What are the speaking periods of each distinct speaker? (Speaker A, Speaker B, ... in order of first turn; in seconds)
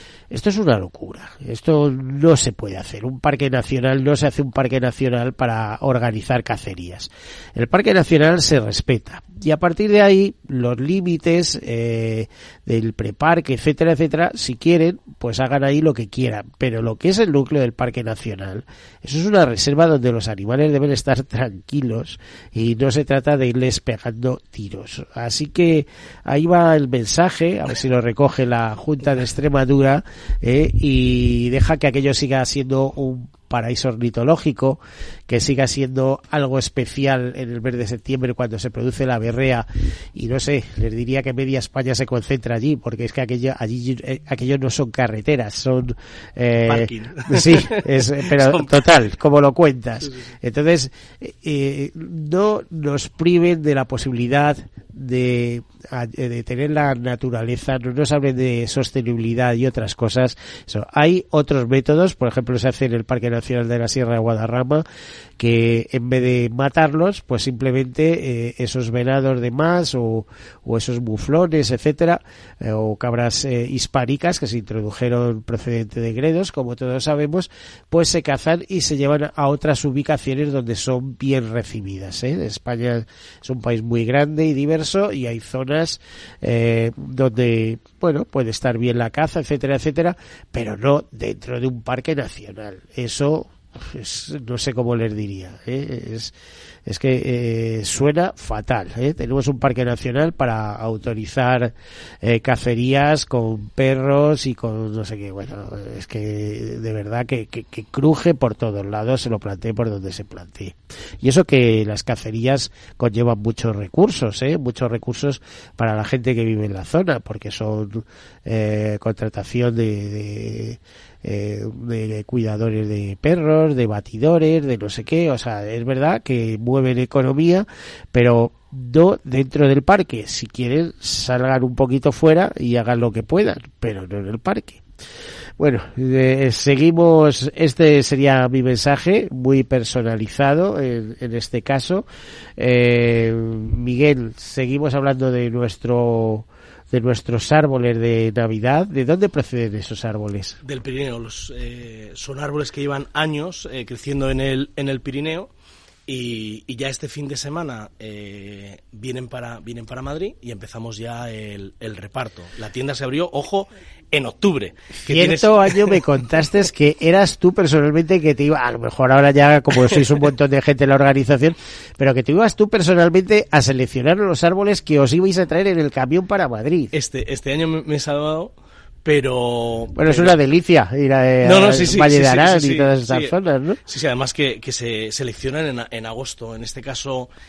Speaker A: 0.3-64.8, 65.4-96.3, 96.8-134.8, 135.6-142.0, 142.6-150.6, 165.0-176.9, 179.9-183.8
Speaker B: 46.6-48.8, 150.6-155.5, 156.1-166.0, 176.9-180.3, 181.4-183.3, 183.9-187.3